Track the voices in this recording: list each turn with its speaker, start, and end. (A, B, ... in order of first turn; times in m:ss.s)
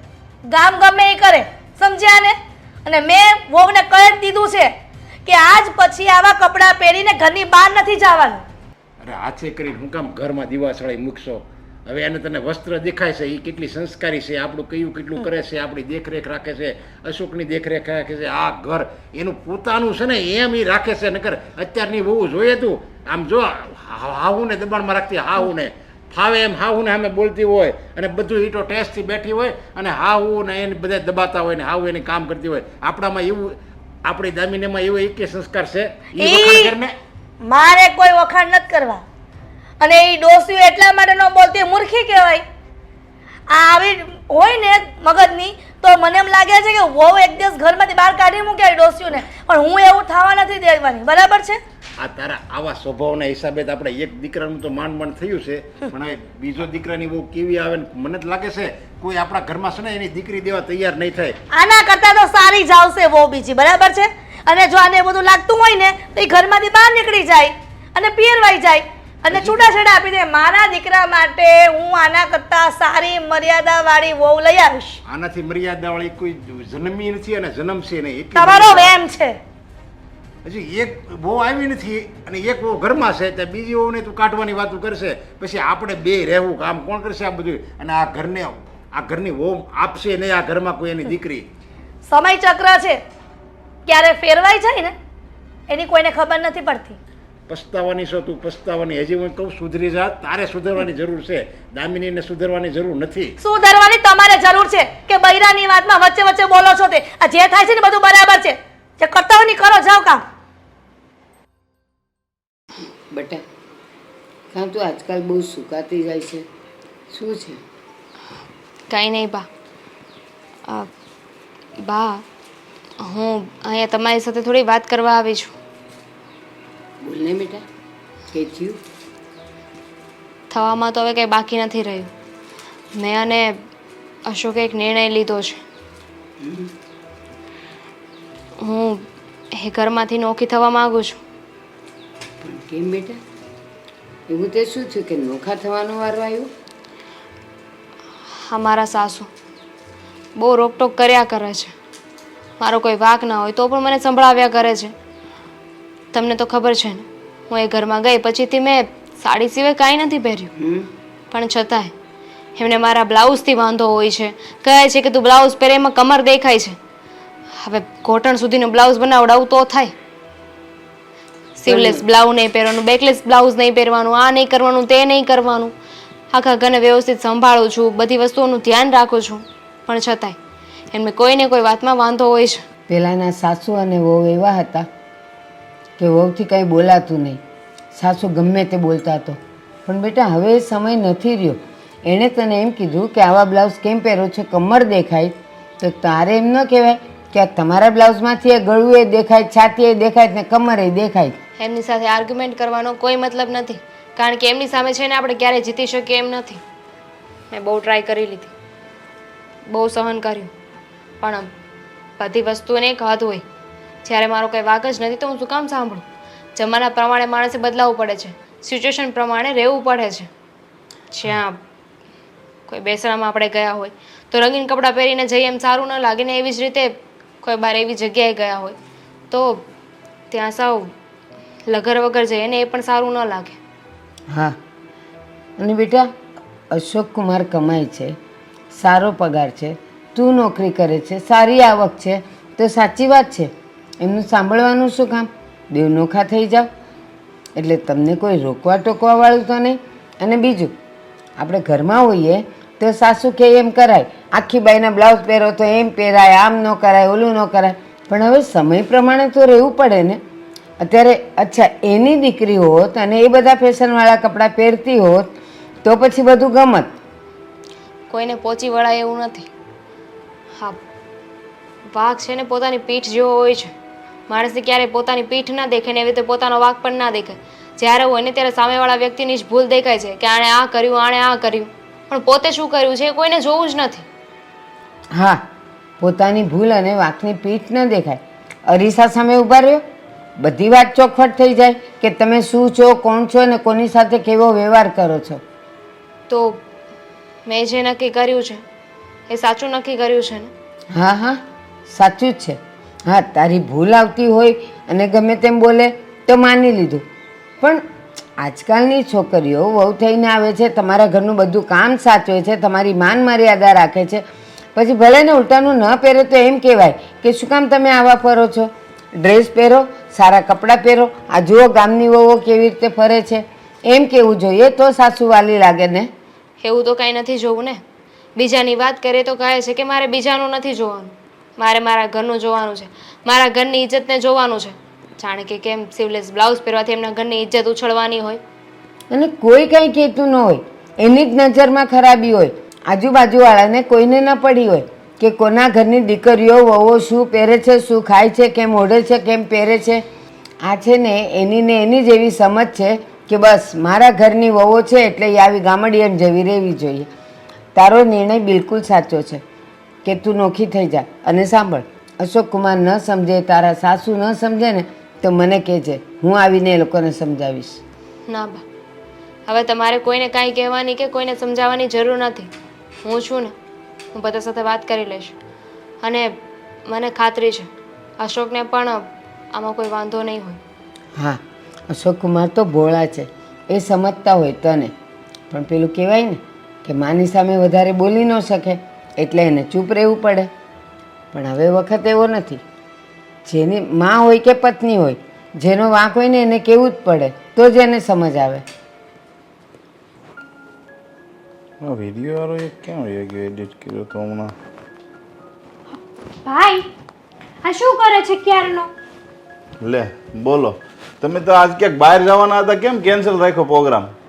0:00.5-0:04.7 A
0:05.3-0:08.4 A
0:09.0-0:37.0 B
0:36.2-0:36.7 A
0:37.4-0:39.0 A
0:39.8-0:42.4 A
0:43.5-0:51.6 A
0:52.0-1:01.4 B
1:01.5-1:15.0 A
1:09.3-1:09.6 B
1:15.1-1:18.9 B
1:18.4-1:19.4 A
1:20.4-1:31.5 B
1:32.1-1:33.0 A
1:33.9-1:34.9 A
1:35.7-1:37.0 A
1:37.5-1:43.4 B
1:43.4-1:50.2 A
1:53.1-1:53.4 C
1:54.5-1:56.4 C
1:57.1-1:57.6 C
1:58.9-1:59.5 D
2:01.8-2:02.2 D
2:03.0-2:05.5 D
2:07.0-2:07.6 C
2:08.3-2:08.8 C
2:10.5-2:12.1 D
2:13.0-2:13.6 D
2:14.3-2:15.6 D
2:16.4-2:16.7 C
2:18.6-2:21.2 D
2:22.4-2:23.2 C
2:24.3-2:26.5 C
2:28.4-2:29.3 D
2:30.4-2:31.7 D
2:32.6-2:34.9 D
2:36.1-2:40.5 D
2:41.3-2:41.9 D
2:42.6-2:46.8 D
2:47.6-2:49.9 D
2:51.6-2:55.7 D
2:51.7-2:52.0 C
2:56.3-3:00.4 D
3:00.9-3:02.6 D
3:02.9-3:04.9 C
3:06.0-3:07.4 C
3:08.0-3:21.4 C
3:21.6-3:26.6 D
3:27.5-3:28.5 D
3:29.7-3:30.5 D
3:31.2-3:31.5 D
3:32.2-3:33.4 D
3:34.0-3:36.0 D
3:36.6-3:40.3 D
3:41.1-3:41.6 D
3:42.7-3:48.8 D
3:49.3-3:49.6 D
3:50.3-3:50.9 D
3:51.7-3:53.6 D
3:54.3-3:54.6 C
3:55.6-3:56.1 C
3:56.7-3:58.2 C
3:58.7-4:06.7 C
4:07.6-4:10.8 C
4:11.4-4:20.2 C
4:20.8-4:26.9 C
4:28.1-4:29.5 D
4:31.9-4:33.7 D
4:34.3-4:44.0 D
4:45.1-4:45.4 C
4:46.0-4:49.8 C
4:50.4-4:55.4 C
4:56.3-4:56.6 D
4:57.5-4:58.6 D
4:59.3-5:00.5 D
5:00.9-5:07.0 C
5:08.4-5:14.2 C
5:14.8-5:26.1 C
5:26.6-5:27.8 D
5:28.4-5:38.4 D
5:39.1-5:50.0 C
5:50.6-5:57.1 C
5:57.8-5:59.4 C
6:00.0-6:07.8 C
6:08.3-6:08.6 D
6:09.5-6:12.5 D
6:13.0-6:13.5 D
6:14.1-6:15.3 D
6:16.0-6:20.6 D
6:21.2-6:24.9 C
6:25.5-6:30.5 C
6:31.3-6:32.6 C
6:33.5-6:38.6 C
6:41.8-6:44.5 E
6:45.9-6:46.8 F
6:47.6-6:48.9 F
6:49.8-6:54.1 E